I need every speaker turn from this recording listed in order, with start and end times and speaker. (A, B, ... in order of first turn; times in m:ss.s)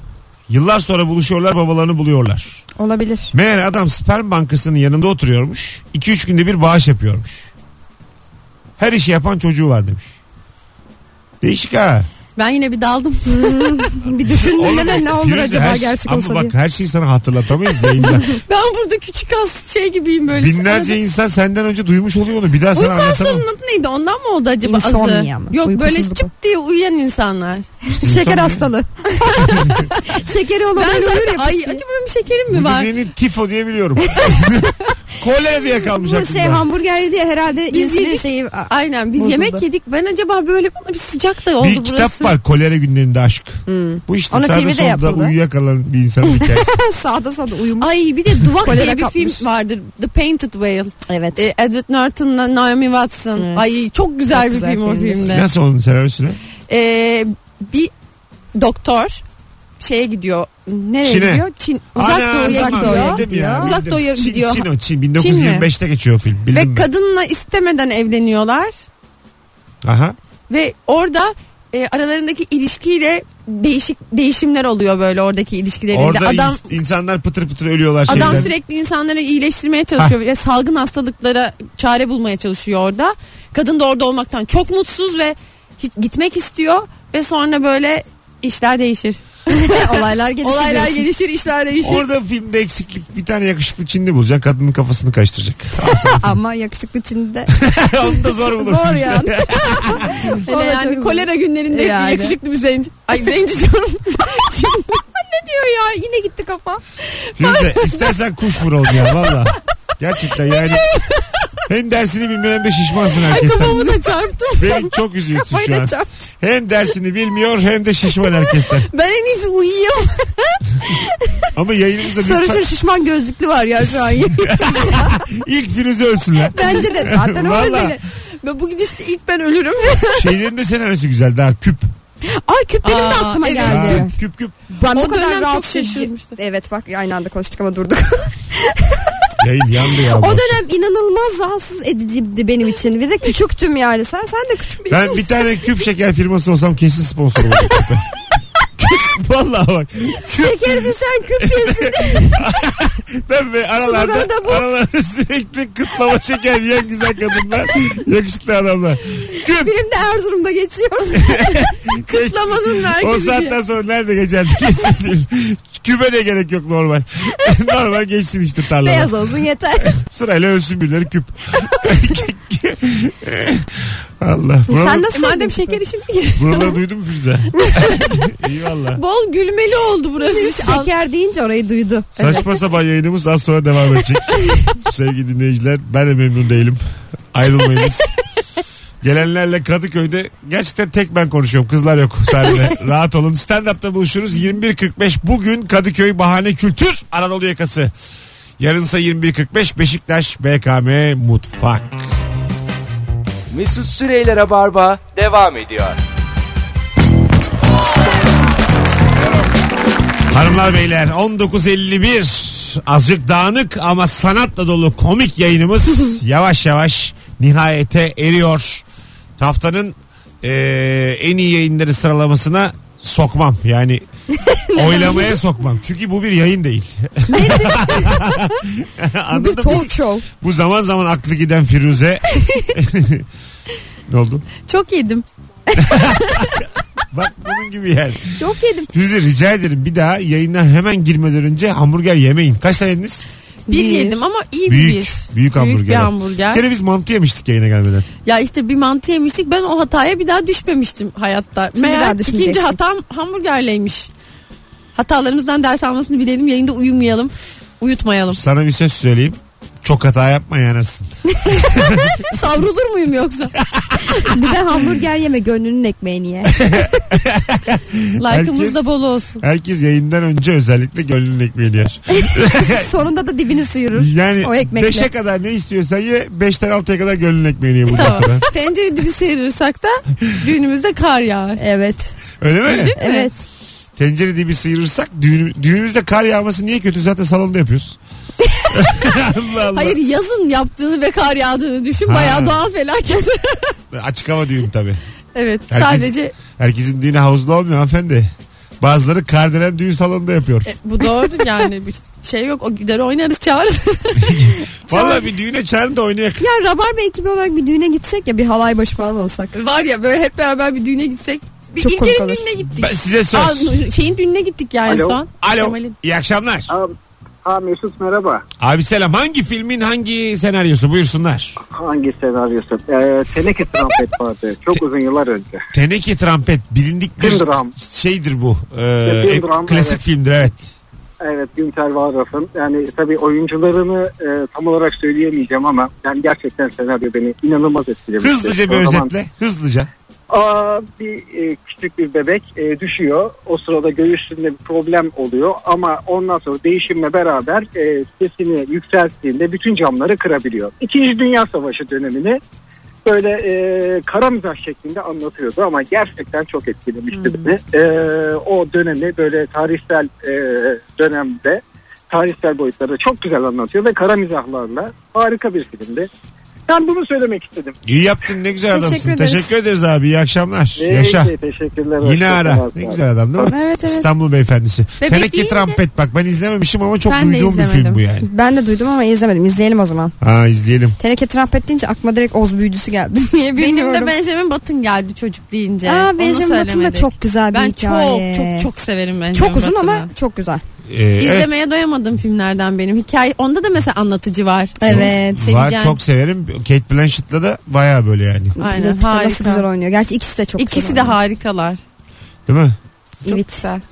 0:00.5-0:02.6 A
0:02.8-0:03.3 B
0:03.3-0:07.5 A
0:08.8-0:10.2 A
0:11.4-0:12.1 A
0:12.4-0:13.8 C
0:13.3-0:16.5 B
0:14.0-0:18.4 A
0:18.4-0:21.0 C
0:20.3-0:23.4 A
0:22.7-0:27.7 C
0:24.6-0:26.3 B
0:27.9-0:31.8 B
0:28.0-0:28.7 A
0:29.3-0:29.7 C
0:30.8-0:32.9 C
0:32.5-0:36.7 A
0:35.9-0:39.6 B
0:37.7-0:42.3 C
0:41.6-0:46.7 A
0:43.7-0:45.4 B
0:46.4-0:49.4 B
0:47.8-0:55.5 C
0:51.1-0:51.4 B
0:53.4-0:53.6 B
0:54.3-0:55.3 B
0:55.3-0:56.4 A
0:56.7-0:57.9 C
0:58.6-0:59.2 C
0:59.8-1:05.7 C
1:01.0-1:06.9 A
1:02.4-1:03.8 B
1:06.5-1:08.7 C
1:09.8-1:10.2 A
1:10.5-1:16.7 C
1:15.9-1:18.5 A
1:18.1-1:29.2 C
1:18.1-1:18.5 B
1:29.5-1:31.1 B
1:30.4-1:32.0 C
1:31.8-1:36.4 A
1:35.9-1:37.5 B
1:37.5-1:40.3 A
1:38.4-1:42.4 B
1:40.5-1:45.0 C
1:45.2-1:46.8 B
1:47.2-1:48.1 C
1:47.4-1:50.9 A
1:48.8-1:49.4 C
1:51.7-1:53.8 A
1:53.2-1:54.9 C
1:53.6-1:54.0 B
1:54.6-1:58.9 A
1:55.5-1:56.1 B
1:58.9-2:00.5 C
2:01.6-2:02.7 A
2:02.2-2:05.2 B
2:03.8-2:08.0 A
2:06.5-2:08.0 B
2:08.4-2:10.3 C
2:10.2-2:11.9 A
2:12.2-2:14.1 B
2:12.8-2:14.1 C
2:13.6-2:14.6 A
2:14.7-2:19.3 B
2:14.9-2:16.4 C
2:19.4-2:20.6 A
2:20.1-2:25.2 B
2:24.9-2:28.0 A
2:28.8-2:39.8 A
2:30.3-2:32.4 B
2:33.8-2:34.6 B
2:39.4-2:41.6 B
2:41.2-2:49.2 A
2:42.0-2:43.6 C
2:48.8-2:49.9 B
2:49.8-2:55.1 A
2:54.7-2:55.8 B
2:54.8-2:56.7 C
2:56.4-2:59.0 A
2:59.0-3:00.9 C
3:00.2-3:02.1 B
3:02.2-3:02.4 C
3:02.2-3:06.8 A
3:07.3-3:08.1 A
3:09.0-3:17.9 A
3:18.6-3:22.1 A
3:23.5-3:26.0 D
3:30.3-3:38.8 A
3:39.4-3:44.0 A
3:44.4-3:45.4 B
3:44.7-3:53.3 A
3:47.3-3:48.4 B
3:49.3-3:50.2 B
3:54.1-3:54.5 A
3:54.6-3:55.2 C
3:55.8-3:58.4 A
3:58.4-3:58.9 B
3:58.9-4:03.3 A
4:03.7-4:06.6 C
4:03.7-4:04.2 B
4:04.7-4:08.1 A
4:08.2-4:14.1 C
4:11.8-4:12.8 B
4:15.0-4:18.4 C
4:18.3-4:21.2 A
4:21.5-4:22.2 B
4:21.7-4:22.1 A
4:22.3-4:23.5 C
4:23.6-4:24.3 A
4:24.2-4:26.7 B
4:26.5-4:32.9 A
4:28.2-4:29.4 C
4:32.2-4:35.1 B
4:33.9-4:38.5 A
4:37.9-4:41.6 C
4:41.6-4:42.2 B
4:42.4-4:43.0 A
4:42.7-4:43.3 C
4:43.0-4:43.4 B
4:44.0-4:48.0 A
4:48.7-4:50.0 A
4:49.7-4:53.8 C
4:52.0-4:52.6 A
4:53.9-4:55.0 A
4:55.4-4:56.3 C
4:55.7-5:00.7 A
5:00.7-5:04.5 C
5:04.2-5:06.4 A
5:04.9-5:05.2 B
5:06.4-5:09.5 B
5:09.5-5:16.0 C
5:11.8-5:12.4 B
5:12.8-5:13.8 A
5:14.9-5:15.2 E
5:15.4-5:16.7 A
5:16.7-5:18.4 E
5:18.6-5:21.6 A
5:21.6-5:25.6 E
5:25.7-5:30.8 A
5:27.2-5:27.7 E
5:29.1-5:30.0 E
5:31.2-5:39.1 E
5:38.2-5:39.9 A
5:40.3-5:52.4 E
5:53.1-6:06.1 E
5:57.1-5:57.5 C
6:06.7-6:07.8 E
6:07.9-6:11.3 A
6:08.7-6:09.5 B
6:10.8-6:13.0 E
6:12.0-6:18.3 A
6:13.4-6:14.1 B
6:15.0-6:15.8 C
6:17.1-6:18.0 C
6:18.2-6:20.2 B
6:20.2-6:21.0 A
6:21.0-6:24.1 B
6:23.6-6:30.1 C
6:25.8-6:28.7 B
6:29.3-6:30.6 B
6:30.9-6:31.5 A
6:31.2-6:36.0 C
6:34.8-6:35.4 B
6:34.9-6:38.6 A
6:38.6-6:41.2 B
6:38.6-6:39.7 C
6:40.6-6:41.8 C
6:42.5-6:42.8 A
6:43.2-6:43.8 C
6:43.3-6:43.6 B